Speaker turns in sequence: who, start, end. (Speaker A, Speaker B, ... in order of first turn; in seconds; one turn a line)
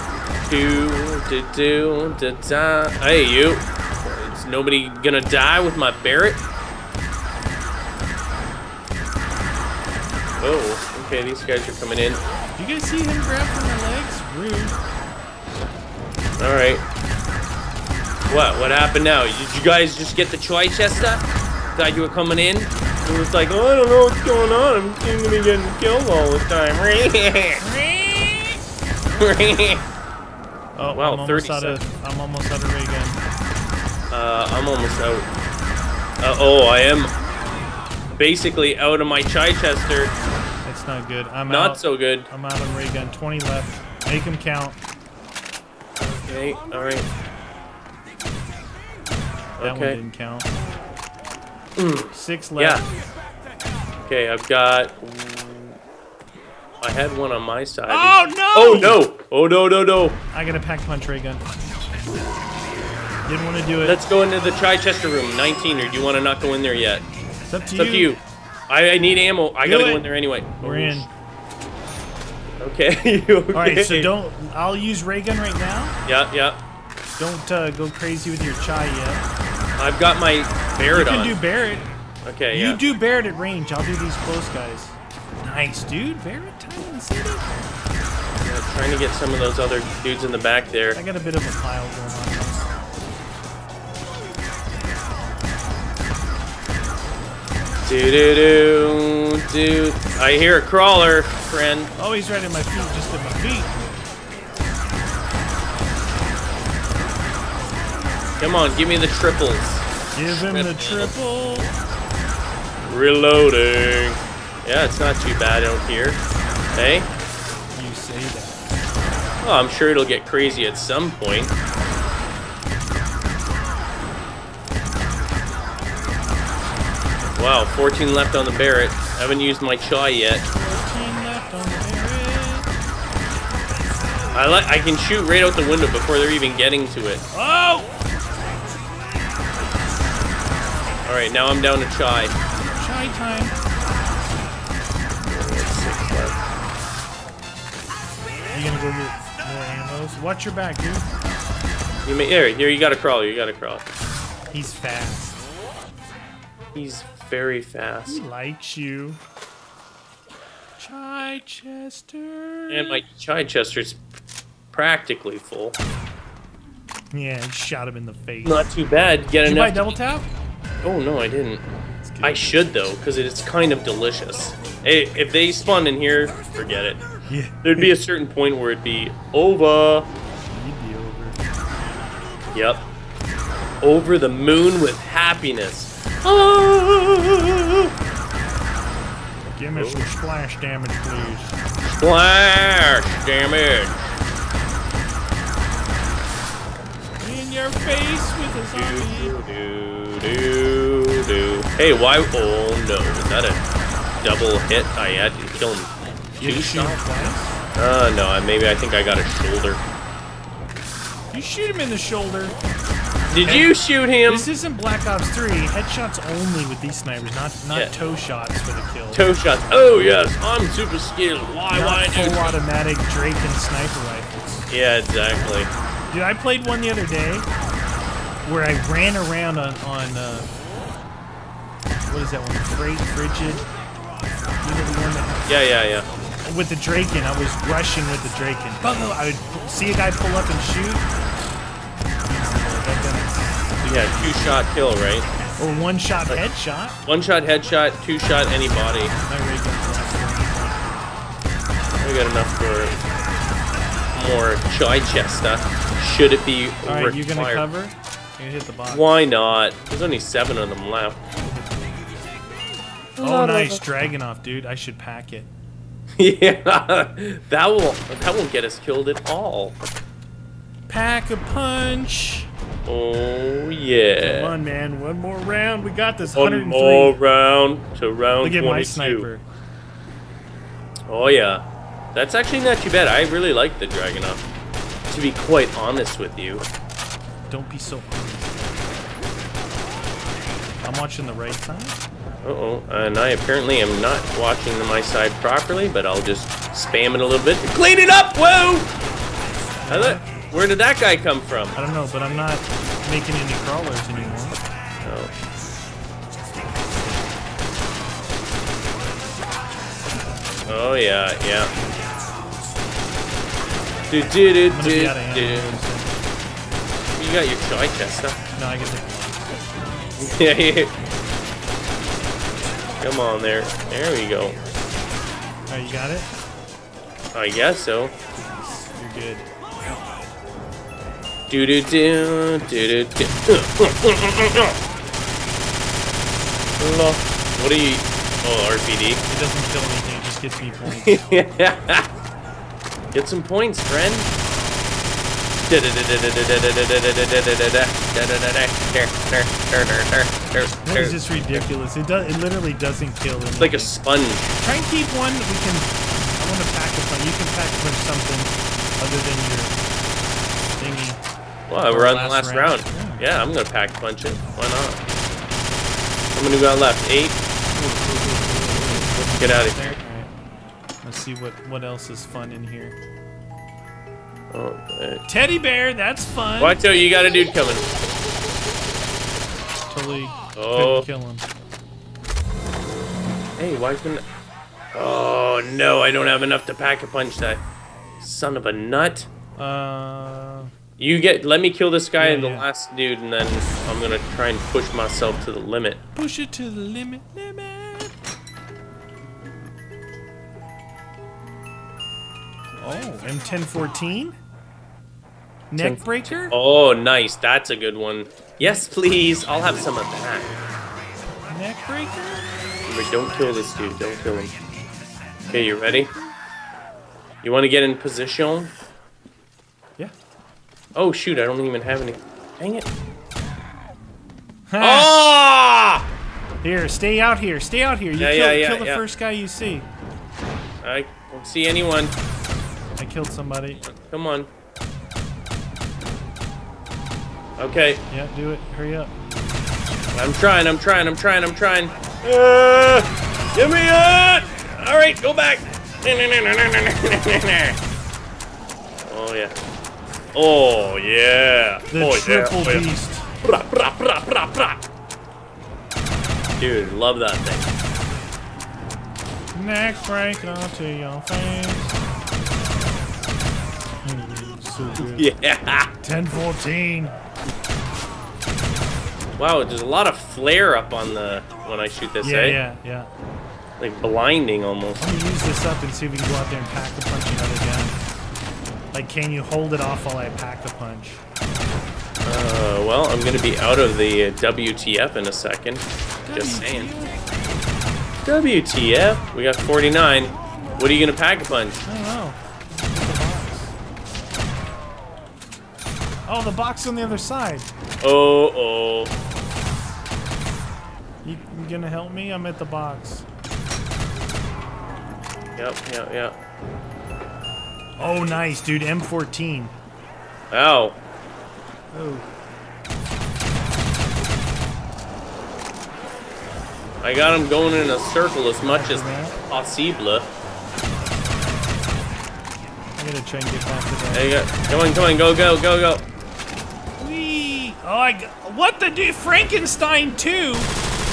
Speaker A: 0.4-6.4
Speaker A: 10.4-12.2
Speaker B: 12.6-14.8
Speaker A: 16.4-16.9
Speaker A: 18.3-21.2
Speaker A: 21.8-27.6
Speaker B: 27.6-28.6
Speaker A: 29.2-29.9
Speaker B: 30.8-33.2
Speaker A: 30.9-31.8
Speaker A: 34.1-35.3
Speaker A: 36.2-37.1
Speaker A: 38.1-40.1
Speaker B: 40.6-44.8
Speaker A: 41.5-42.3
Speaker A: 46.0-47.1
Speaker A: 49.6-50.0
Speaker B: 49.6-50.5
Speaker A: 51.8-52.8
Speaker B: 52.1-52.8
Speaker A: 54.0-55.8
Speaker A: 56.8-60.2
Speaker B: 57.9-59.0
Speaker B: 60.3-61.5
Speaker B: 63.3-64.0
Speaker A: 63.8-67.1
Speaker B: 67.5-68.1
Speaker A: 67.8-71.1
Speaker B: 69.6-70.0
Speaker B: 70.6-71.1
Speaker A: 72.6-74.1
Speaker B: 73.5-76.0
Speaker A: 76.1-76.6
Speaker B: 77.2-79.2
Speaker A: 79.8-81.4
Speaker B: 80.9-81.9
Speaker A: 82.2-82.8
Speaker B: 82.5-87.7
Speaker A: 88.3-91.0
Speaker B: 90.9-92.6
Speaker A: 97.8-101.9
Speaker B: 102.0-103.8
Speaker A: 108.4-111.1
Speaker B: 110.1-111.7
Speaker A: 112.8-116.2
Speaker A: 116.7-117.1
Speaker B: 117.8-118.7
Speaker A: 119.4-121.5
Speaker A: 127.3-130.5
Speaker B: 130.5-132.7
Speaker A: 134.3-137.2
Speaker B: 137.3-137.9
Speaker A: 141.1-142.3
Speaker B: 142.8-143.6
Speaker A: 145.2-146.4
Speaker B: 148.5-151.1
Speaker A: 152.1-153.8
Speaker B: 154.5-155.4
Speaker A: 156.7-158.2
Speaker B: 158.1-159.2
Speaker B: 160.8-163.0
Speaker A: 162.7-164.0
Speaker A: 164.7-165.8
Speaker B: 167.1-168.7
Speaker A: 168.4-169.9
Speaker B: 169.4-170.3
Speaker A: 170.8-171.7
Speaker B: 172.0-172.4
Speaker A: 172.2-177.0
Speaker B: 177.3-177.9
Speaker A: 177.6-180.1
Speaker B: 180.5-181.4
Speaker A: 182.5-182.9
Speaker A: 183.8-187.9
Speaker B: 189.5-191.6
Speaker A: 189.8-190.0
Speaker A: 191.8-194.1
Speaker B: 197.2-199.4
Speaker A: 198.7-203.6
Speaker A: 204.2-207.1
Speaker B: 206.4-207.6
Speaker A: 207.8-209.8
Speaker B: 211.3-212.6
Speaker A: 213.3-214.5
Speaker B: 213.4-213.7
Speaker B: 214.2-219.2
Speaker A: 219.1-222.6
Speaker B: 221.7-224.7
Speaker A: 224.7-225.7
Speaker B: 226.1-227.5
Speaker B: 228.4-230.5
Speaker B: 232.1-233.7
Speaker B: 234.6-235.6
Speaker A: 235.5-236.1
Speaker B: 236.4-241.0
Speaker B: 242.2-243.9
Speaker A: 243.8-245.3
Speaker B: 245.6-247.0
Speaker A: 247.1-249.2
Speaker B: 249.3-250.8
Speaker A: 252.0-252.9
Speaker A: 254.1-257.7
Speaker B: 256.9-259.1
Speaker A: 258.9-261.2
Speaker A: 263.2-263.8
Speaker B: 263.2-265.5
Speaker A: 266.2-269.8
Speaker B: 270.9-272.5
Speaker A: 272.9-274.5
Speaker B: 274.2-277.2
Speaker A: 276.3-279.3
Speaker B: 278.4-279.4
Speaker A: 281.1-281.6
Speaker A: 282.1-284.4
Speaker A: 285.1-286.7
Speaker B: 287.5-288.9
Speaker B: 290.8-292.0
Speaker A: 292.4-298.9
Speaker B: 299.9-300.3
Speaker A: 299.9-301.8
Speaker B: 301.7-304.6
Speaker A: 305.0-305.3
Speaker A: 310.7-311.7
Speaker A: 314.1-315.8
Speaker B: 314.7-316.1
Speaker A: 317.2-318.4
Speaker B: 318.6-319.5
Speaker A: 320.2-320.9
Speaker A: 323.0-324.6
Speaker B: 325.7-326.3
Speaker A: 327.3-328.1
Speaker B: 328.6-329.5
Speaker A: 331.5-334.8
Speaker A: 336.8-339.2
Speaker B: 339.3-341.3
Speaker A: 341.0-342.1
Speaker A: 343.1-344.3
Speaker A: 345.7-351.7
Speaker B: 350.8-353.9
Speaker A: 353.6-354.5
Speaker B: 354.6-359.8
Speaker B: 360.8-361.2
Speaker A: 361.7-365.0
Speaker B: 361.9-363.2
Speaker A: 366.3-369.9
Speaker B: 369.3-370.3
Speaker B: 371.0-372.9
Speaker A: 374.5-375.2
Speaker B: 375.3-376.8
Speaker A: 376.6-377.9
Speaker B: 379.9-381.4
Speaker A: 380.6-381.1
Speaker A: 383.6-384.2
Speaker A: 384.9-387.6
Speaker A: 388.2-389.3
Speaker B: 389.6-390.7
Speaker A: 391.0-396.0
Speaker B: 392.2-392.7
Speaker B: 396.1-398.1
Speaker B: 402.8-404.4
Speaker B: 405.7-406.6
Speaker A: 405.8-410.5
Speaker B: 411.5-412.5
Speaker A: 412.9-414.5
Speaker B: 415.4-416.3
Speaker A: 415.5-416.1
Speaker A: 417.4-418.7
Speaker A: 420.9-422.9
Speaker B: 424.7-425.2
Speaker A: 424.8-426.1
Speaker B: 426.6-429.9
Speaker A: 428.2-429.0
Speaker A: 430.8-432.2
Speaker B: 433.0-433.8
Speaker A: 433.9-434.5
Speaker A: 437.6-438.0
Speaker B: 438.1-439.1
Speaker A: 440.1-447.8
Speaker A: 449.1-449.6
Speaker A: 450.3-452.9
Speaker B: 451.9-453.3
Speaker A: 453.4-454.8
Speaker A: 456.6-457.7
Speaker B: 459.5-462.0
Speaker B: 464.1-465.3
Speaker A: 465.0-465.9
Speaker B: 466.0-467.2
Speaker A: 469.4-472.6
Speaker B: 472.2-473.1
Speaker A: 473.8-475.0
Speaker B: 475.0-478.0
Speaker B: 478.9-481.2
Speaker A: 482.2-486.9
Speaker B: 486.2-487.2
Speaker A: 488.2-491.8
Speaker B: 491.9-493.7
Speaker B: 496.3-497.7
Speaker A: 498.0-499.1
Speaker B: 501.2-503.3
Speaker A: 505.6-506.4
Speaker B: 508.0-509.7
Speaker A: 510.5-511.0
Speaker B: 511.9-512.3
Speaker A: 517.0-520.3
Speaker B: 518.6-519.4
Speaker B: 523.0-524.3
Speaker A: 524.1-526.1
Speaker B: 527.0-530.7